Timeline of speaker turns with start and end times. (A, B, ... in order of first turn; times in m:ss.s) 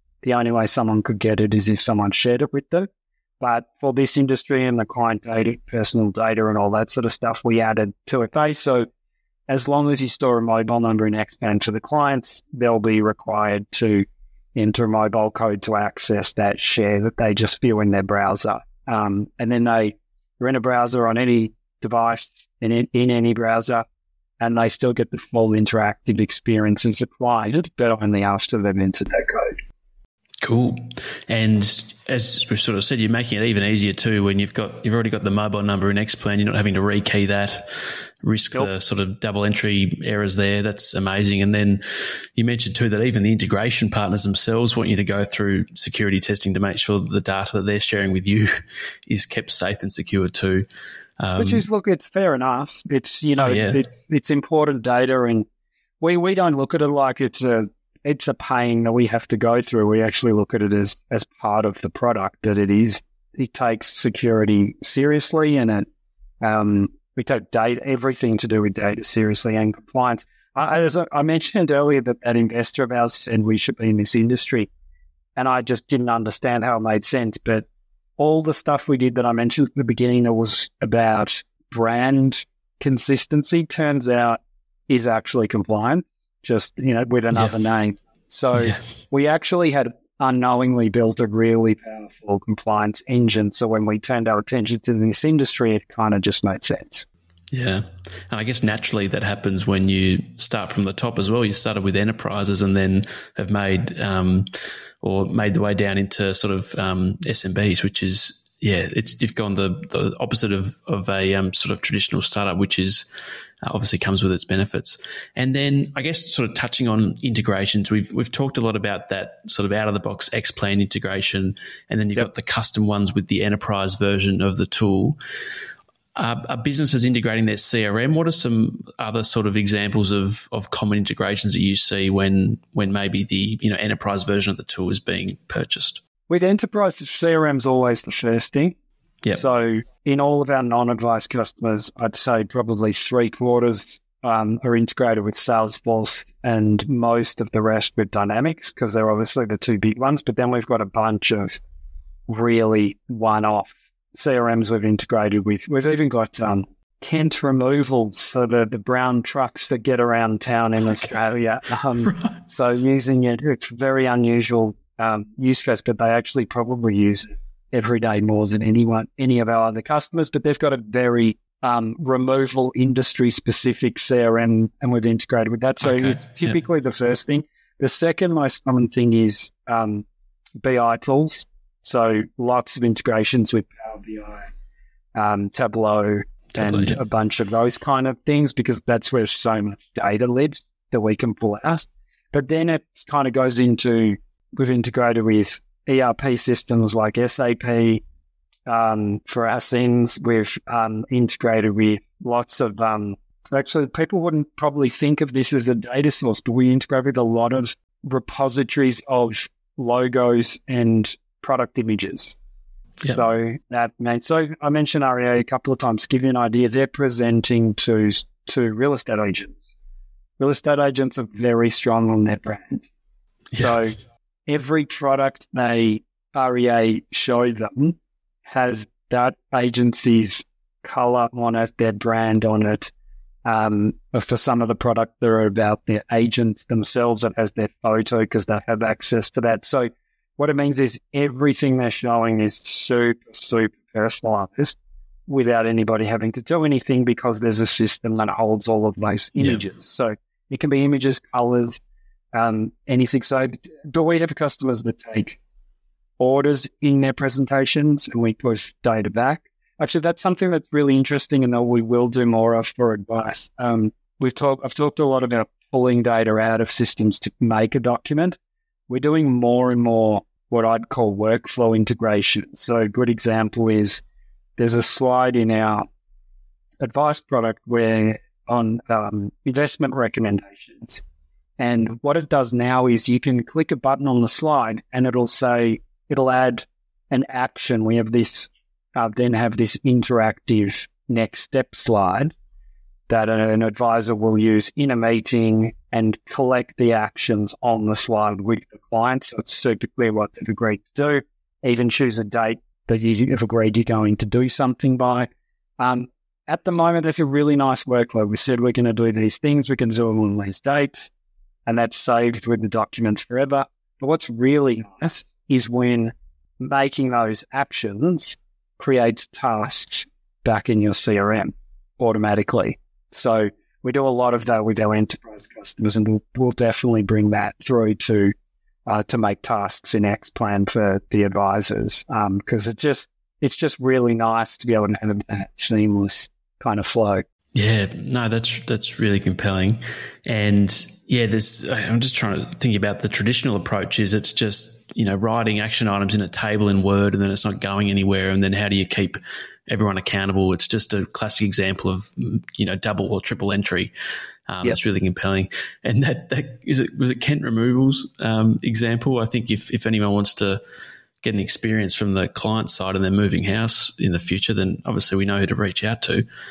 0:00.2-0:02.9 A
0:03.4-0:08.9 A
0:09.5-0:23.8 A
0:24.4-0:29.6 A
0:30.4-0:37.7 B
0:38.2-0:41.8 B
0:42.4-0:50.7 B
0:51.2-0:51.6 B
0:51.4-0:55.5 A
0:53.4-0:53.8 B
0:56.0-1:05.9 A
1:06.4-1:14.7 A
1:15.4-1:17.7 A
1:18.2-1:37.1 A
1:28.6-1:28.8 B
1:37.5-1:53.0 B
1:53.6-2:05.2 B
2:06.2-2:16.0 B
2:16.3-2:18.8 A
2:19.3-2:31.6 A
2:32.3-3:00.0 A
2:42.0-2:42.4 B
2:55.8-2:56.6 B
3:00.6-3:04.5 A
3:05.2-3:18.0 A
3:06.6-3:07.0 B
3:18.7-3:32.4 A
3:33.0-3:39.7 A
3:40.4-3:42.9 A
3:43.5-3:43.8 B
3:43.6-3:52.9 A
3:53.4-4:04.8 A
4:05.3-4:11.8 A
4:09.4-4:09.6 B
4:12.3-4:15.4 A
4:16.2-4:28.4 A
4:28.9-4:34.0 A
4:34.6-4:35.9 A
4:36.8-4:41.0 A
4:41.6-4:52.3 A
4:53.1-5:11.1 A
5:11.7-5:28.3 A
5:28.9-5:37.3 A
5:37.5-5:53.9 B
5:54.5-6:00.6 B
6:01.2-6:06.3 B